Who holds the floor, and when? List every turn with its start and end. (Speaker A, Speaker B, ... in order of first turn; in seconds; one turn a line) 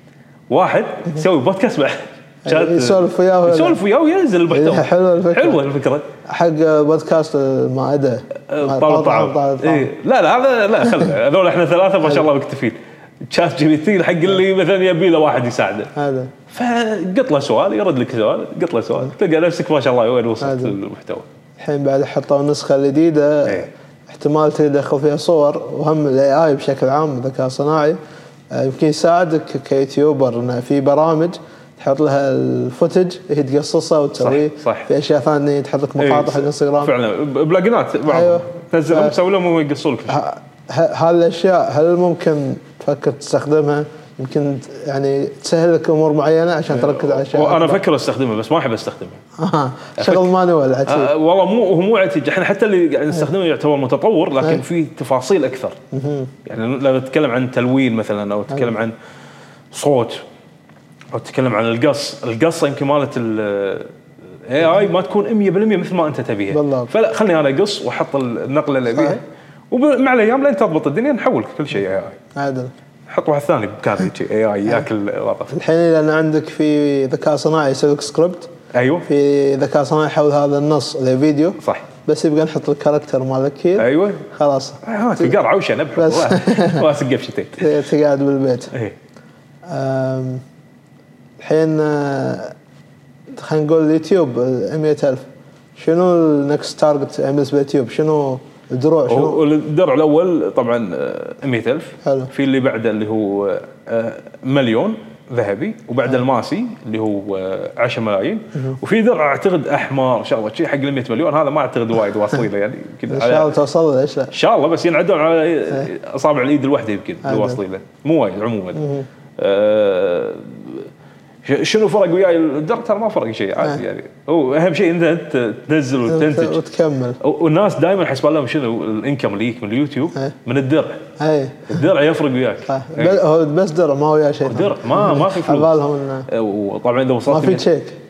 Speaker A: 0.5-6.1
Speaker B: 2.5-3.8
Speaker B: 4.5-5.6
Speaker B: 6.3-9.9
Speaker A: 8.5-15.9
Speaker B: 15.9-16.3
Speaker A: 16.5-21.3
Speaker B: 20.4-20.8
Speaker B: 21.6-28.0
Speaker B: 28.5-36.9
Speaker A: 34.2-34.9
Speaker A: 36.0-40.2
Speaker B: 38.1-39.1
Speaker B: 40.1-47.8
Speaker A: 46.7-49.2
Speaker B: 49.4-51.1
Speaker A: 50.0-50.3
Speaker A: 50.9-55.8
Speaker B: 55.9-56.3
Speaker A: 56.5-59.0
Speaker A: 59.7-60.2
Speaker A: 61.1-72.2
Speaker B: 66.5-66.9
Speaker B: 68.9-69.2
Speaker B: 72.3-72.7
Speaker A: 73.1-75.5
Speaker B: 75.5-78.5
Speaker A: 78.7-79.1
Speaker B: 79.0-85.3
Speaker A: 81.6-81.8
Speaker A: 83.8-84.3
Speaker A: 84.8-87.7
Speaker B: 86.0-86.8
Speaker B: 87.6-88.7
Speaker B: 89.7-90.4
Speaker B: 91.4-92.5
Speaker B: 93.3-99.4
Speaker A: 99.1-113.5
Speaker B: 102.0-102.3
Speaker B: 113.1-114.3
Speaker A: 114.3-118.9
Speaker B: 117.2-117.6
Speaker B: 118.7-119.1
Speaker A: 119.4-120.9
Speaker A: 121.4-126.6
Speaker B: 126.0-127.2
Speaker A: 127.2-131.1
Speaker B: 131.2-131.9
Speaker A: 131.7-133.2
Speaker B: 132.7-136.3
Speaker A: 134.4-135.8
Speaker A: 136.3-137.6
Speaker B: 137.3-138.0